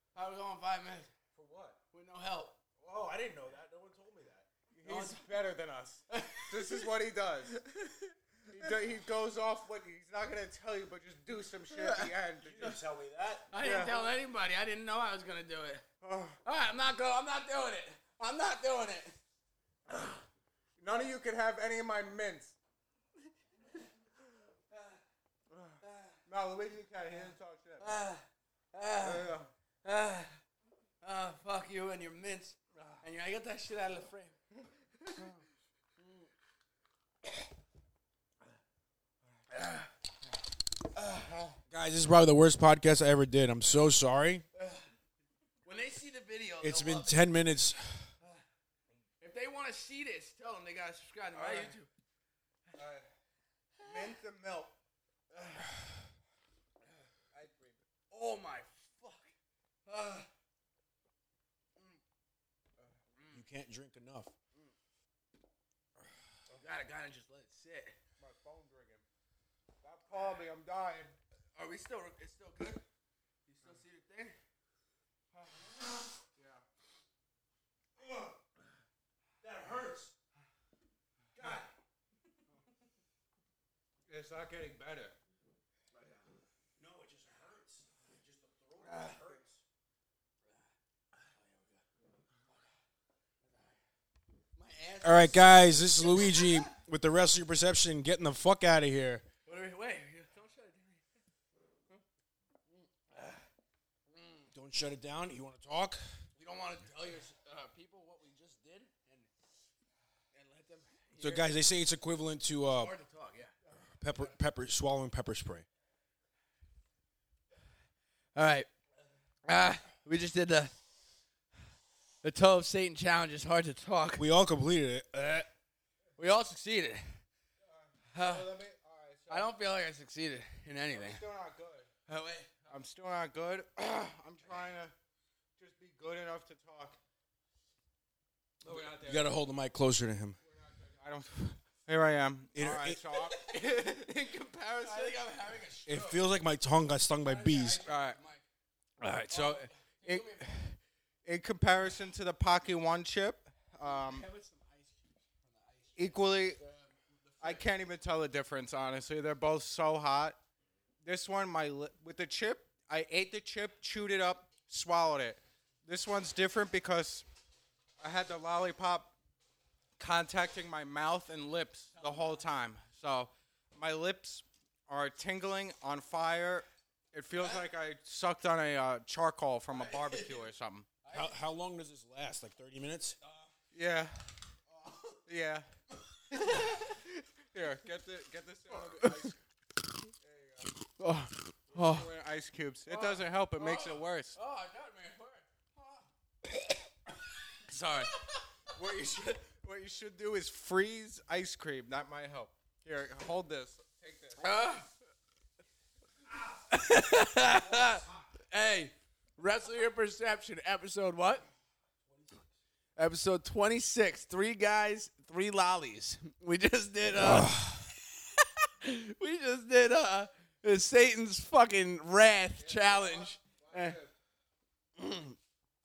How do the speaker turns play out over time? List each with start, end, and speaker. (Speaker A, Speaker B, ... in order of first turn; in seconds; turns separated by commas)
Speaker A: 0.1-1.1, Speaker B: 1.3-1.8, Speaker A: 1.9-2.6, Speaker B: 2.8-4.5, Speaker C: 4.7-7.6, Speaker A: 4.8-5.3, Speaker A: 6.1-6.9, Speaker A: 7.5-8.8, Speaker C: 8.5-12.8, Speaker A: 11.7-12.8, Speaker B: 12.4-13.5, Speaker A: 13.5-15.9, Speaker C: 13.6-14.0, Speaker C: 16.0-16.4, Speaker A: 16.4-19.2, Speaker C: 20.8-22.6, Speaker A: 24.7-25.0, Speaker A: 25.7-26.2, Speaker C: 26.2-28.0, Speaker A: 27.8-29.3, Speaker C: 29.0-29.5, Speaker A: 29.8-30.4, Speaker A: 31.0-34.4, Speaker C: 32.7-33.0, Speaker A: 36.0-36.3, Speaker A: 39.5-39.9, Speaker A: 41.0-41.2, Speaker C: 41.3-41.6, Speaker B: 41.7-44.5, Speaker A: 44.6-44.8, Speaker A: 45.6-47.1, Speaker B: 46.6-48.1, Speaker A: 49.2-51.9, Speaker C: 51.4-51.8, Speaker C: 52.7-53.1, Speaker A: 53.8-54.1, Speaker C: 53.8-54.8, Speaker A: 55.3-55.6, Speaker C: 57.3-57.8, Speaker A: 58.1-59.3, Speaker A: 59.9-60.3, Speaker A: 63.1-63.4, Speaker B: 63.3-64.3, Speaker A: 66.5-68.0, Speaker C: 68.2-69.0, Speaker C: 69.8-71.2, Speaker A: 71.5-72.8, Speaker A: 73.5-74.4, Speaker A: 75.3-75.6, Speaker C: 76.3-76.7, Speaker B: 79.4-80.1, Speaker B: 81.4-81.7, Speaker C: 84.1-85.2, Speaker A: 85.9-86.3, Speaker B: 86.8-89.6, Speaker A: 88.8-89.4, Speaker A: 91.2-91.8, Speaker A: 93.4-93.8, Speaker A: 94.5-96.8, Speaker B: 95.0-99.3, Speaker A: 99.5-101.1, Speaker A: 102.7-103.5, Speaker A: 104.1-104.5, Speaker B: 104.5-106.3, Speaker A: 106.4-109.3, Speaker A: 110.3-111.6, Speaker B: 111.2-112.9, Speaker A: 112.7-114.3, Speaker B: 114.0-115.7, Speaker A: 118.3-118.7, Speaker A: 119.5-120.8, Speaker A: 122.2-124.3, Speaker B: 124.2-125.5, Speaker A: 126.2-127.2, Speaker C: 127.6-129.6, Speaker A: 128.1-128.6, Speaker A: 129.3-131.2, Speaker C: 130.9-131.9, Speaker A: 132.1-132.7, Speaker C: 132.7-134.9, Speaker C: 135.6-137.0, Speaker C: 138.6-139.3, Speaker B: 138.7-140.4, Speaker C: 140.4-145.2, Speaker B: 142.6-143.0, Speaker A: 143.1-143.9, Speaker A: 144.8-146.3, Speaker B: 145.9-147.8, Speaker A: 147.2-148.4, Speaker C: 147.8-148.2, Speaker C: 149.0-154.3, Speaker A: 149.3-150.6, Speaker A: 153.8-157.8, Speaker C: 156.0-156.6, Speaker C: 157.4-160.4, Speaker C: 161.0-167.3, Speaker C: 168.0-169.2, Speaker C: 170.0-180.9, Speaker A: 171.9-172.5, Speaker A: 177.4-177.7, Speaker A: 179.7-180.5, Speaker A: 181.0-181.4, Speaker B: 181.1-183.2, Speaker A: 183.2-183.5, Speaker C: 183.7-184.4, Speaker A: 184.7-185.3, Speaker C: 185.3-185.7, Speaker A: 186.1-186.9, Speaker C: 186.3-189.4, Speaker A: 188.7-189.3, Speaker C: 190.2-190.7, Speaker A: 190.9-192.1, Speaker C: 191.7-194.4, Speaker A: 192.9-196.0, Speaker C: 197.7-198.1, Speaker C: 198.7-204.6, Speaker A: 204.4-204.9, Speaker A: 206.7-211.5, Speaker B: 207.2-208.3, Speaker B: 212.1-212.4, Speaker A: 213.0-217.7, Speaker B: 217.1-217.9, Speaker A: 218.2-224.0, Speaker C: 222.6-224.1, Speaker A: 225.0-225.4